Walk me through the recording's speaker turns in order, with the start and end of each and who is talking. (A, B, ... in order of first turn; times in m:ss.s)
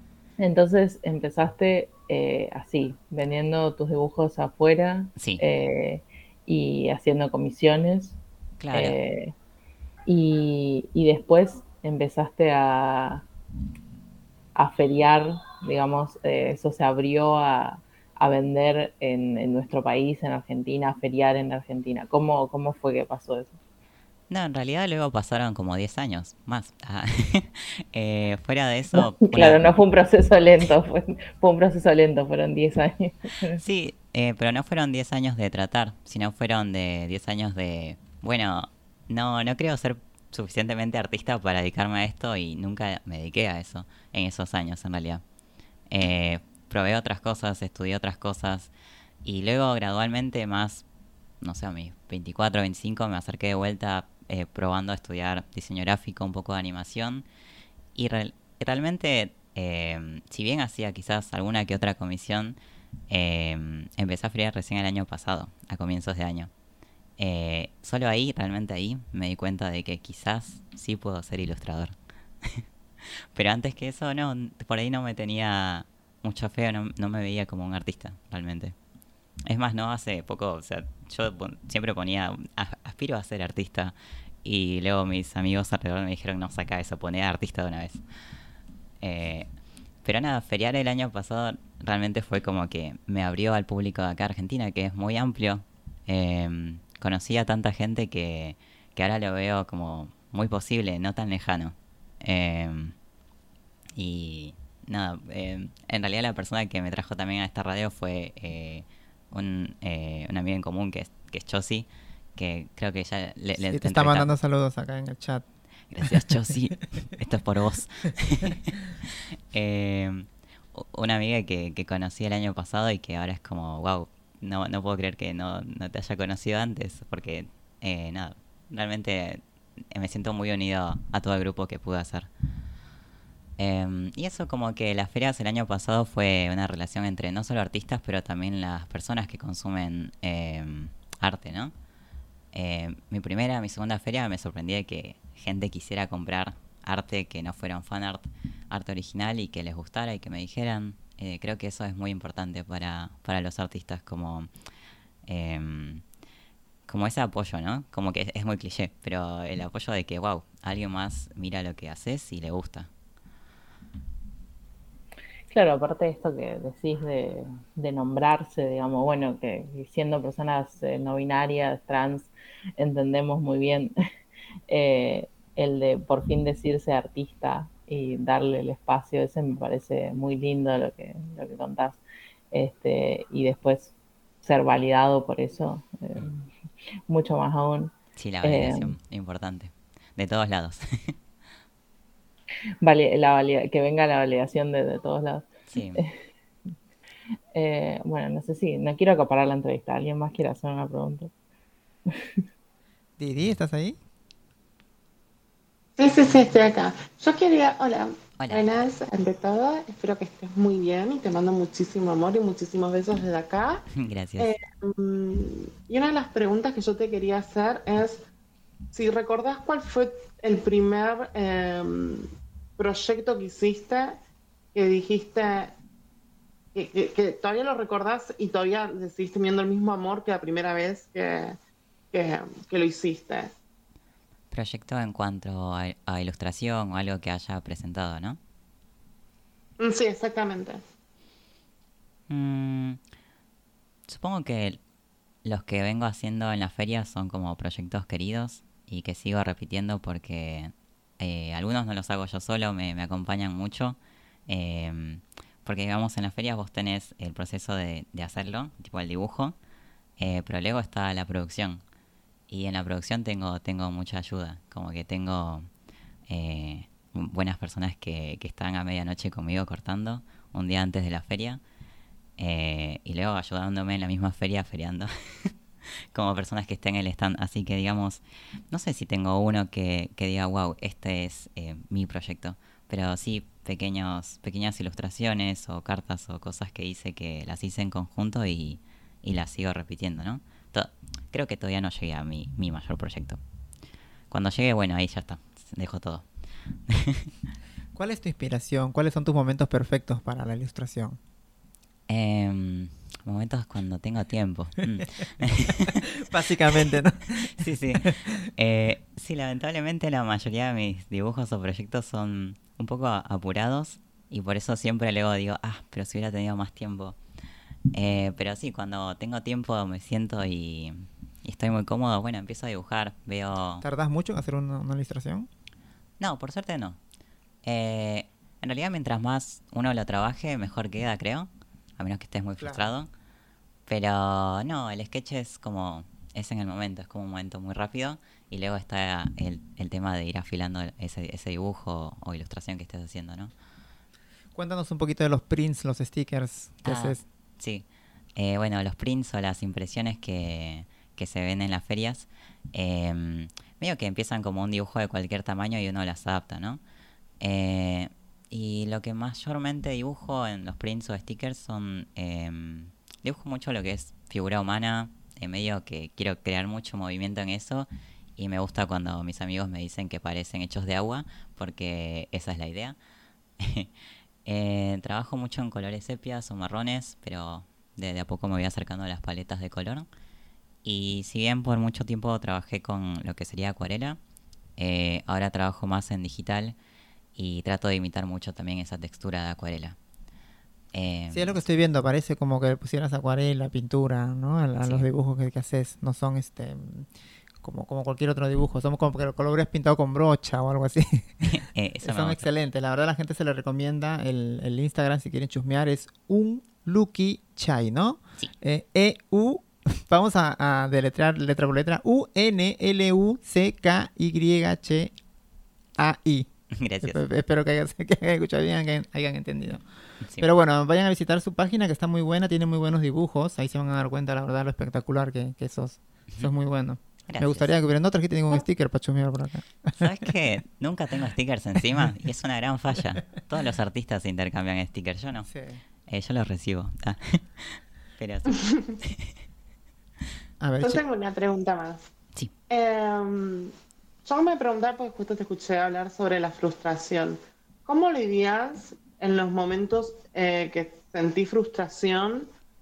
0:00.4-0:08.2 A
0:05.2-0:05.4 B
0:08.6-0:09.0 B
0:08.7-0:09.3 A
0:10.1-0:13.2 A
0:14.5-0:23.5 A
0:24.3-0:29.7 B
0:28.9-0:33.6 A
0:33.6-0:45.2 B
0:45.9-0:48.7 B
0:49.2-0:50.8 B
0:51.4-0:57.2 B
0:57.9-1:02.6 B
1:03.1-1:06.5 B
1:07.2-1:12.6 B
1:13.3-1:18.7 B
1:19.5-1:28.0 B
1:29.0-1:29.5 B
1:30.0-1:42.9 B
1:44.0-1:54.3 B
1:53.7-1:55.4 C
1:55.9-1:58.7 B
1:56.0-1:56.3 C
1:59.5-2:12.3 B
2:13.6-2:21.7 B
2:22.5-2:34.5 B
2:35.2-2:36.0 B
2:36.8-2:42.9 B
2:45.5-2:53.9 A
2:54.7-3:02.0 A
3:02.5-3:06.5 A
3:07.1-3:09.0 A
3:08.2-3:11.2 B
3:12.8-3:16.1 A
3:15.7-3:16.0 B
3:17.5-3:21.3 A
3:23.2-3:24.0 C
3:26.0-3:33.8 D
3:28.4-3:28.6 B
3:34.0-3:34.5 B
3:34.4-3:38.2 D
3:38.9-3:42.2 D
3:42.8-3:44.2 D
3:44.7-3:45.7 D
3:46.7-3:51.6 D
3:52.1-3:53.5 D
3:54.5-3:58.4 B
3:59.8-4:00.8 D
4:02.3-4:03.0 B
4:04.1-4:04.8 B
4:05.4-4:19.6 B
4:20.2-4:21.8 B
4:22.5-4:25.7 B
4:26.3-4:31.6 B
4:32.4-4:35.5 B
4:36.1-4:53.4 B
4:54.3-4:56.3 B
4:56.9-4:57.3 B
4:57.9-5:01.2 C
5:02.1-5:06.0 B
5:05.0-5:08.1 C
5:07.6-5:17.2 B
5:17.9-5:23.8 B
5:23.8-5:25.5 C
5:26.2-5:27.0 B
5:27.6-5:33.1 B
5:32.6-5:32.9 C
5:33.9-5:43.5 B
5:44.5-5:47.2 C
5:46.8-5:56.8 B
5:57.4-6:13.0 B
6:13.6-6:13.9 B
6:14.4-6:20.1 B
6:20.8-6:24.2 B
6:24.8-6:26.8 B
6:27.3-6:30.0 B
6:30.9-6:31.6 B
6:31.3-6:37.1 C
6:37.6-6:41.4 C
6:41.4-6:42.4 B
6:42.0-6:55.1 C
6:56.0-6:59.8 C
6:56.7-6:57.2 B
7:00.4-7:10.3 C
7:07.2-7:07.7 B
7:10.0-7:15.5 B
7:15.4-7:15.8 C
7:16.1-7:19.3 B
7:18.5-7:18.9 D
7:20.6-7:21.0 C
7:20.8-7:22.1 D
7:22.7-7:23.7 D
7:24.2-7:32.5 D